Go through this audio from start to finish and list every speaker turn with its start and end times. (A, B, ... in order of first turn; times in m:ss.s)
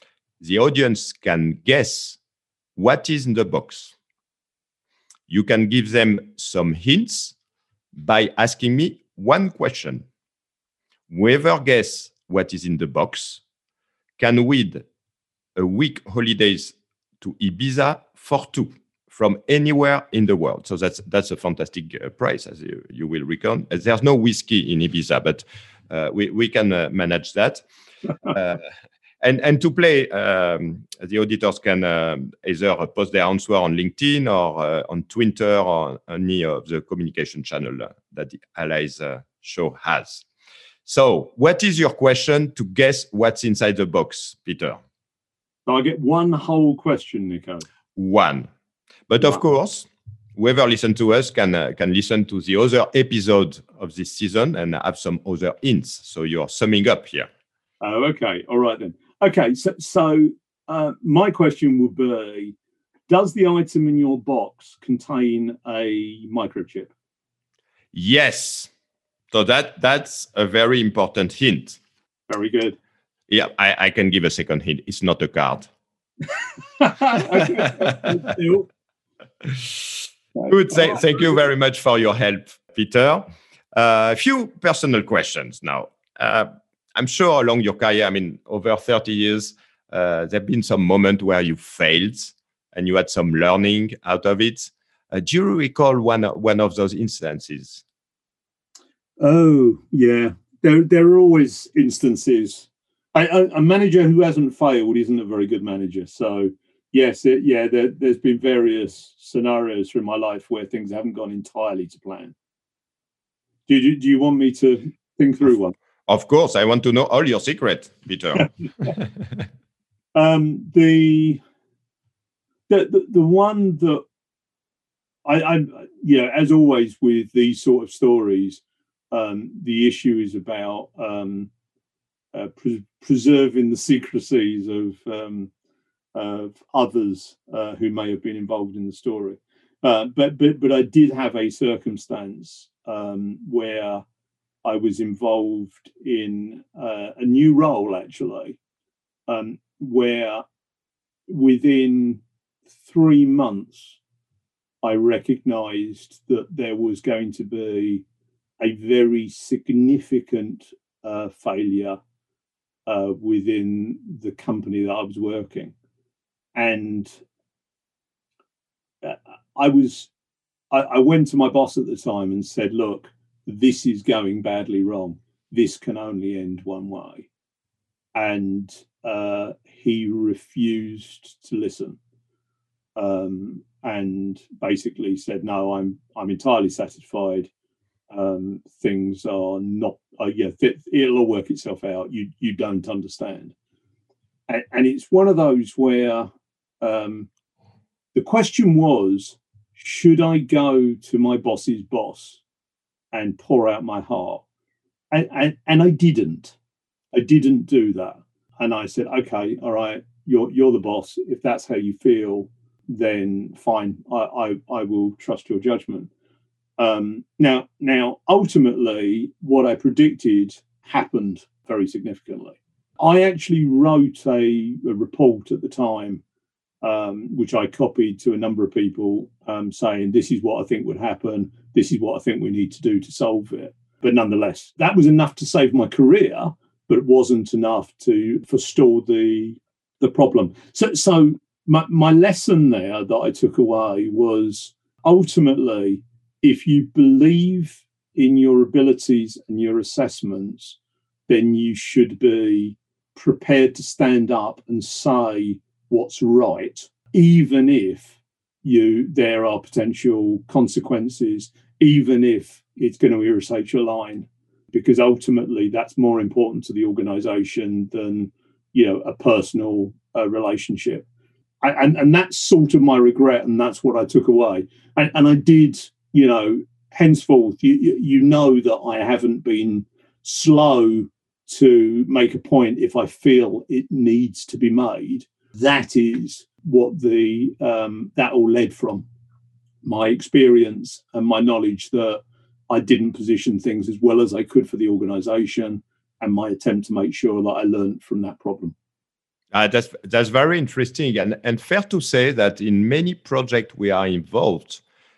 0:00.4-0:02.2 A
0:02.8-0:03.9 A
0:05.3-0:07.3 A
0:07.9-0:10.0 A
0:11.1-0:13.4 A
0:14.2-0:14.8 A
0:15.6-0:27.6 A
0:28.2-0:28.6 A
0:29.2-0:40.2 A
0:40.8-0:44.8 A
0:45.7-0:47.6 B
0:48.0-0:48.5 A
0:49.1-0:57.3 A
0:57.8-1:02.5 B
1:03.1-1:06.9 B
1:07.9-1:08.7 A
1:09.3-1:11.8 A
1:12.3-1:12.8 B
1:13.3-1:15.7 A
1:16.6-1:18.6 B
1:17.4-1:18.0 A
1:19.4-1:19.8 A
1:20.4-1:21.0 B
1:20.5-1:37.8 A
1:39.2-1:52.3 B
1:53.7-1:55.7 B
1:56.1-1:59.1 A
2:00.2-2:01.4 B
2:02.7-2:04.0 B
2:05.2-2:08.6 B
2:09.1-2:11.5 B
2:12.3-2:15.5 B
2:16.1-2:24.0 B
2:24.6-2:28.6 B
2:29.3-2:30.4 B
2:31.3-2:32.2 B
2:32.8-2:34.0 B
2:34.8-2:38.0 B
2:38.6-2:42.0 B
2:42.9-2:45.7 B
2:46.6-2:47.2 B
2:49.0-2:50.1 B
2:50.7-2:57.3 B
2:58.2-3:02.0 B
3:03.0-3:07.5 B
3:08.1-3:13.5 B
3:14.5-3:16.3 B
3:16.8-3:17.3 B
3:18.1-3:22.4 B
3:23.1-3:24.4 B
3:25.1-3:26.6 B
3:27.1-3:36.1 B
3:36.8-3:46.2 B
3:46.8-4:10.8 B
4:11.3-4:31.0 B
4:31.6-4:49.0 B
4:49.8-4:58.7 B
4:59.5-5:04.8 A